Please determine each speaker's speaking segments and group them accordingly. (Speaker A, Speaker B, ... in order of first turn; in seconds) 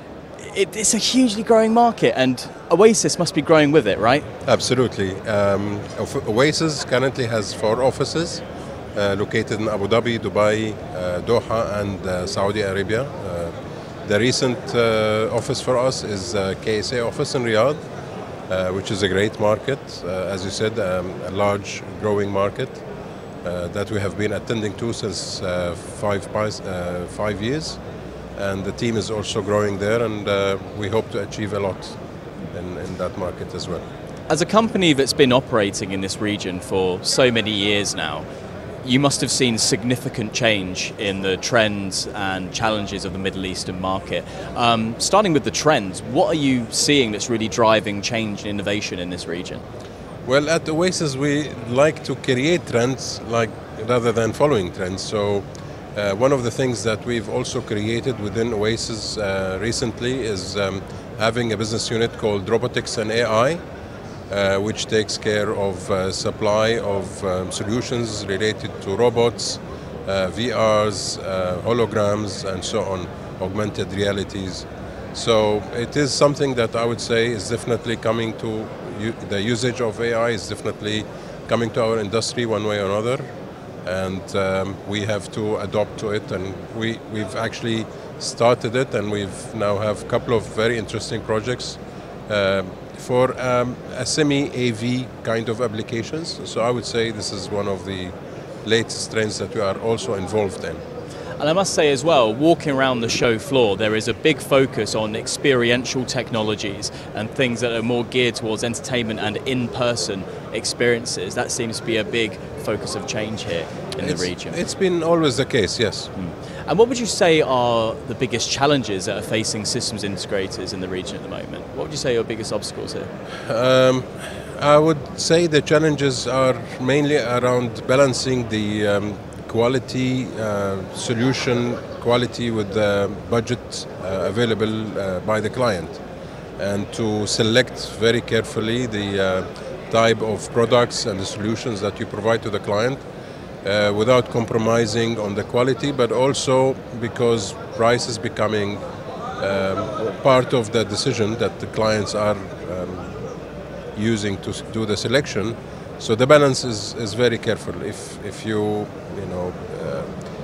Speaker A: 0.4-4.2, 34.3-38.2, 38.8-49.6, 101.4-114.6, 116.1-123.1
Speaker B: 4.5-8.4, 8.9-13.5, 14.0-17.8, 18.5-22.8, 23.4-27.8, 28.4-32.0, 32.5-33.8, 50.2-63.6, 64.3-83.2, 83.8-98.1, 98.6-100.8, 114.0-116.1, 123.5-136.0, 136.6-143.0, 143.6-148.8, 149.4-153.2, 153.9-160.1